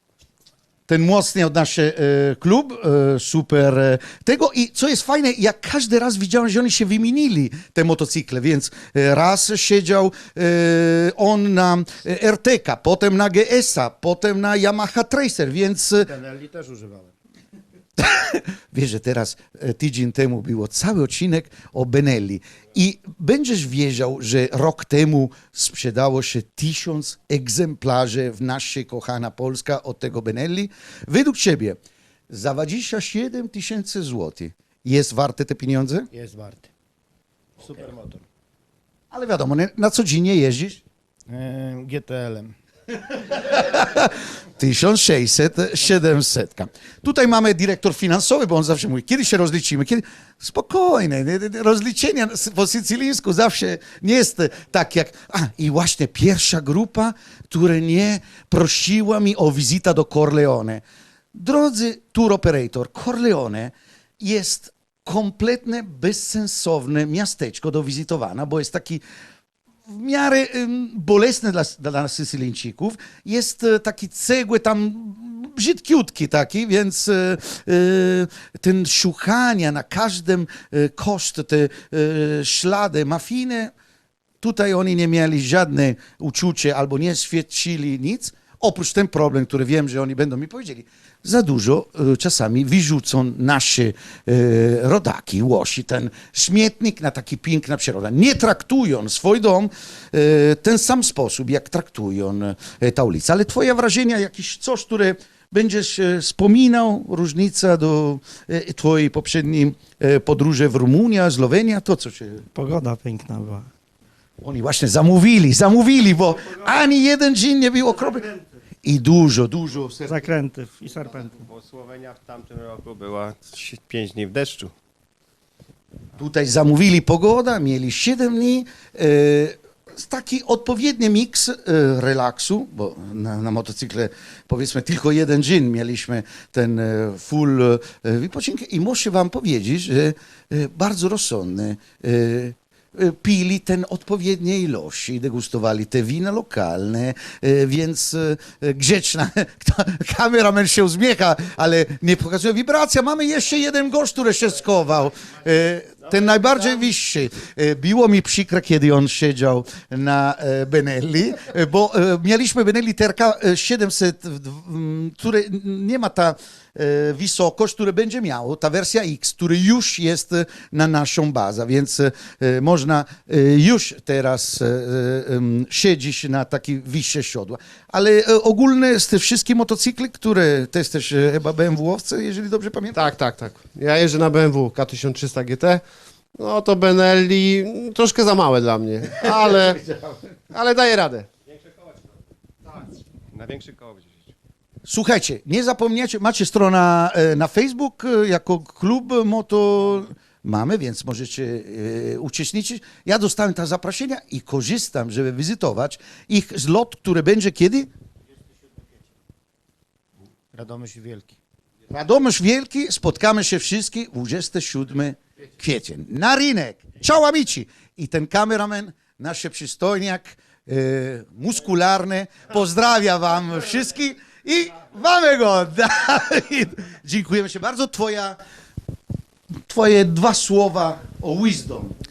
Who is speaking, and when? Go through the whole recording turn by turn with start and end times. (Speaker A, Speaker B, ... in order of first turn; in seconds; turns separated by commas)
Speaker A: 0.9-16.2, Speaker B: 16.1-17.1, Speaker A: 18.0-31.8, Speaker A: 32.3-36.1, Speaker B: 36.1-36.7, Speaker B: 37.6-38.2, Speaker A: 39.1-40.8, Speaker B: 41.3-42.5, Speaker A: 43.3-60.8, Speaker A: 61.3-69.0, Speaker A: 69.9-83.7, Speaker A: 84.4-112.5, Speaker C: 112.5-113.7, Speaker A: 114.4-120.2, Speaker C: 120.1-121.3, Speaker D: 121.1-124.7, Speaker A: 126.2-183.1, Speaker E: 182.9-185.8, Speaker E: 186.3-189.9, Speaker E: 190.5-191.3, Speaker D: 193.3-194.3, Speaker A: 194.8-207.9, Speaker B: 210.5-211.4, Speaker A: 211.9-228.4, Speaker A: 229.7-231.9